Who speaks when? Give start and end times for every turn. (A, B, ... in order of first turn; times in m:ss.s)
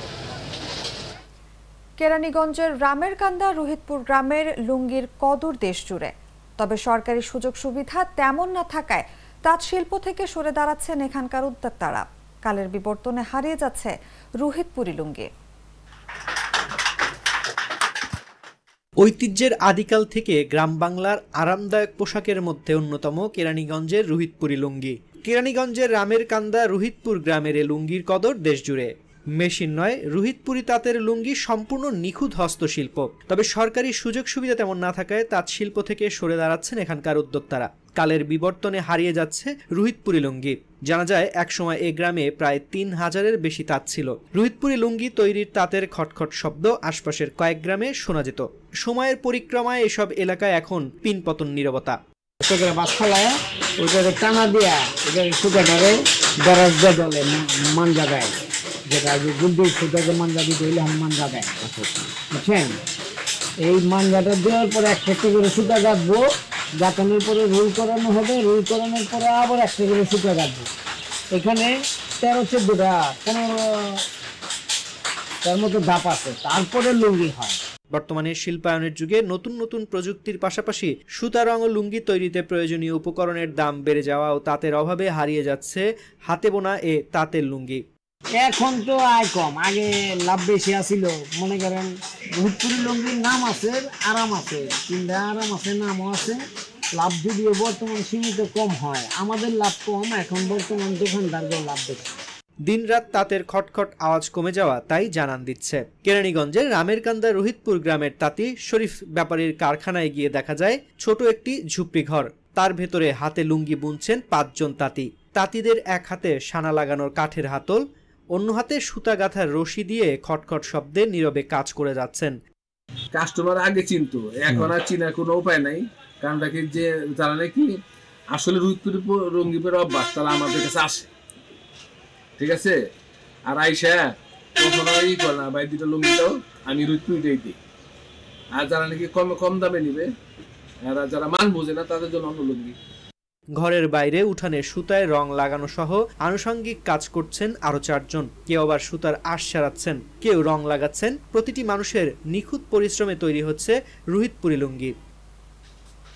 0:02.0-0:15.3 A
0:19.0-0:52.0 B
0:52.4-0:55.9 C
0:56.4-0:58.4 C
0:58.9-1:02.8 C
1:03.6-1:06.2 C
1:06.8-1:10.7 C
1:11.3-1:11.7 C
1:12.2-1:14.0 C
1:15.4-1:17.6 C
1:17.9-1:27.8 B
1:28.4-1:31.9 C
1:32.4-1:36.4 C
1:37.0-1:42.1 C
1:42.7-1:57.8 B
1:58.3-2:02.4 B
2:03.1-2:07.8 D
2:08.3-2:11.1 D
2:12.4-2:12.8 D
2:13.5-2:17.6 D
2:18.5-2:20.1 D
2:20.8-2:22.8 D
2:23.6-2:35.0 B